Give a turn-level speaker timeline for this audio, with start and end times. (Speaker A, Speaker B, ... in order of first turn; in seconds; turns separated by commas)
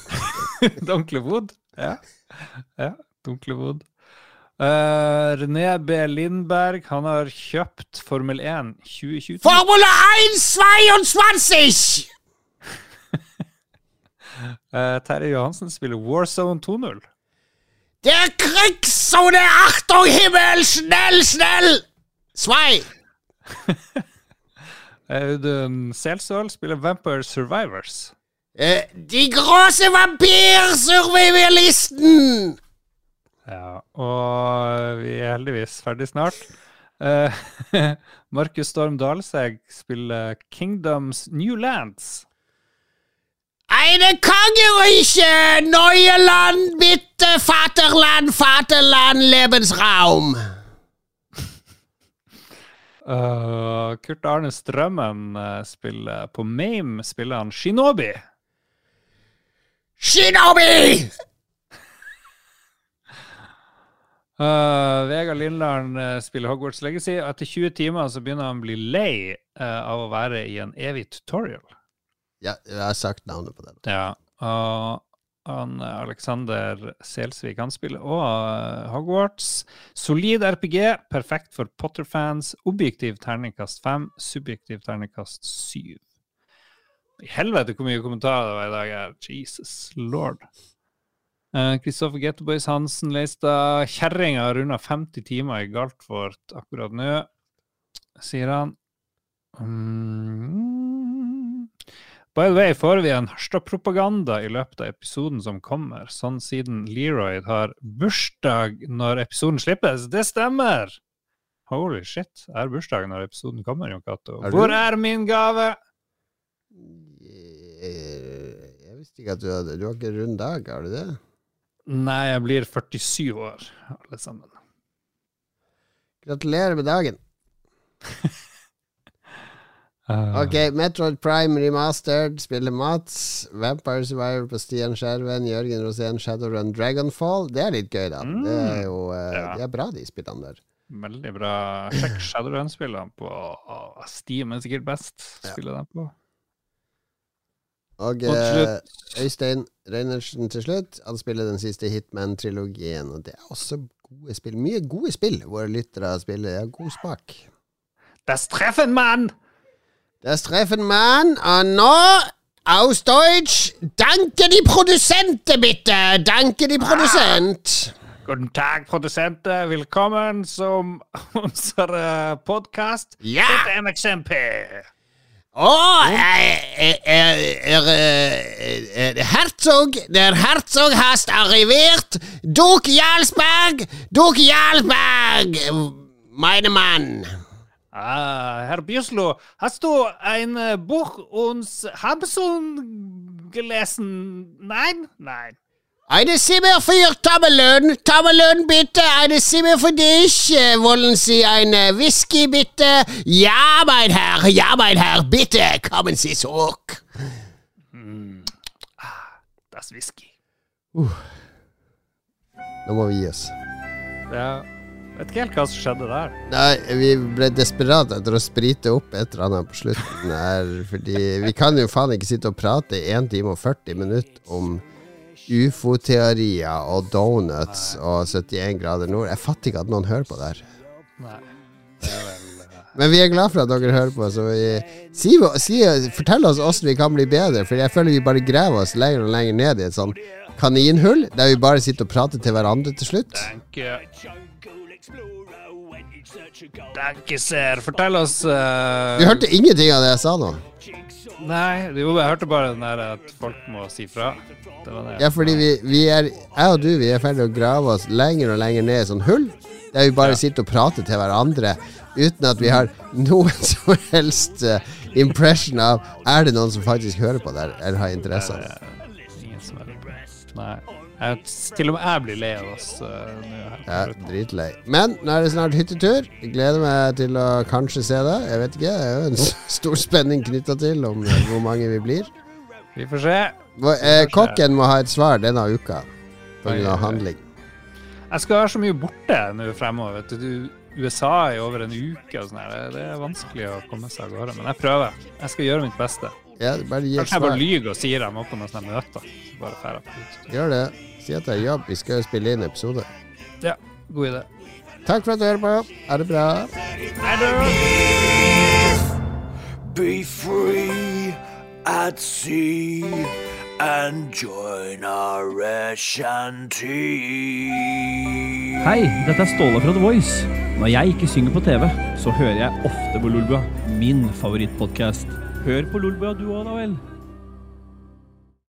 Speaker A: 0.1-3.9, Speaker A: 4.6-9.6, Speaker B: 9.4-12.1, Speaker A: 14.3-17.1, Speaker B: 18.0-22.9, Speaker A: 23.5-24.0, Speaker A: 25.1-28.1, Speaker B: 28.6-32.6, Speaker A: 33.5-42.3, Speaker B: 43.7-50.4, Speaker A: 53.0-58.2, Speaker B: 60.0-61.1, Speaker A: 64.4-71.7, Speaker B: 72.4-73.8, Speaker A: 73.8-86.0, Speaker A: 87.2-90.5, Speaker A: 91.5-97.3, Speaker A: 98.2-98.8, Speaker A: 99.6-101.7, Speaker A: 102.3-111.0, Speaker A: 111.7-115.8, Speaker B: 114.4-114.8, Speaker B: 116.8-121.2, Speaker A: 121.9-124.5, Speaker B: 126.2-127.2, Speaker A: 130.1-130.6, Speaker B: 130.3-140.6, Speaker A: 138.2-139.6, Speaker A: 140.9-146.1, Speaker B: 148.0-157.4, Speaker A: 148.3-149.2, Speaker A: 158.3-159.3, Speaker B: 160.2-167.9, Speaker A: 166.8-167.4, Speaker A: 168.2-174.9, Speaker B: 173.2-173.7, Speaker B: 175.6-187.4, Speaker A: 176.0-176.3, Speaker A: 187.9-195.6, Speaker B: 196.1-207.0, Speaker A: 207.9-210.3, Speaker B: 210.9-211.2, Speaker B: 212.9-213.5, Speaker A: 214.3-216.4, Speaker B: 216.5-224.8, Speaker B: 225.5-230.7, Speaker A: 227.7-228.0, Speaker A: 231.2-232.9, Speaker B: 232.9-243.5, Speaker A: 243.3-244.1, Speaker C: 245.1-246.8, Speaker A: 246.9-249.5, Speaker B: 249.2-250.6, Speaker A: 251.3-255.7, Speaker B: 255.2-268.7, Speaker A: 262.6-262.9, Speaker A: 268.3-274.4, Speaker B: 273.9-282.3, Speaker A: 282.9-284.6, Speaker B: 283.8-286.1, Speaker B: 286.6-287.4, Speaker A: 286.6-287.2, Speaker A: 288.3-296.4, Speaker B: 296.6-297.6, Speaker A: 297.2-300.5, Speaker B: 300.5-303.1, Speaker A: 303.6-304.5, Speaker B: 305.1-306.8, Speaker A: 307.2-308.0, Speaker C: 307.8-308.8, Speaker C: 309.9-311.3, Speaker C: 311.9-317.9, Speaker D: 318.8-327.0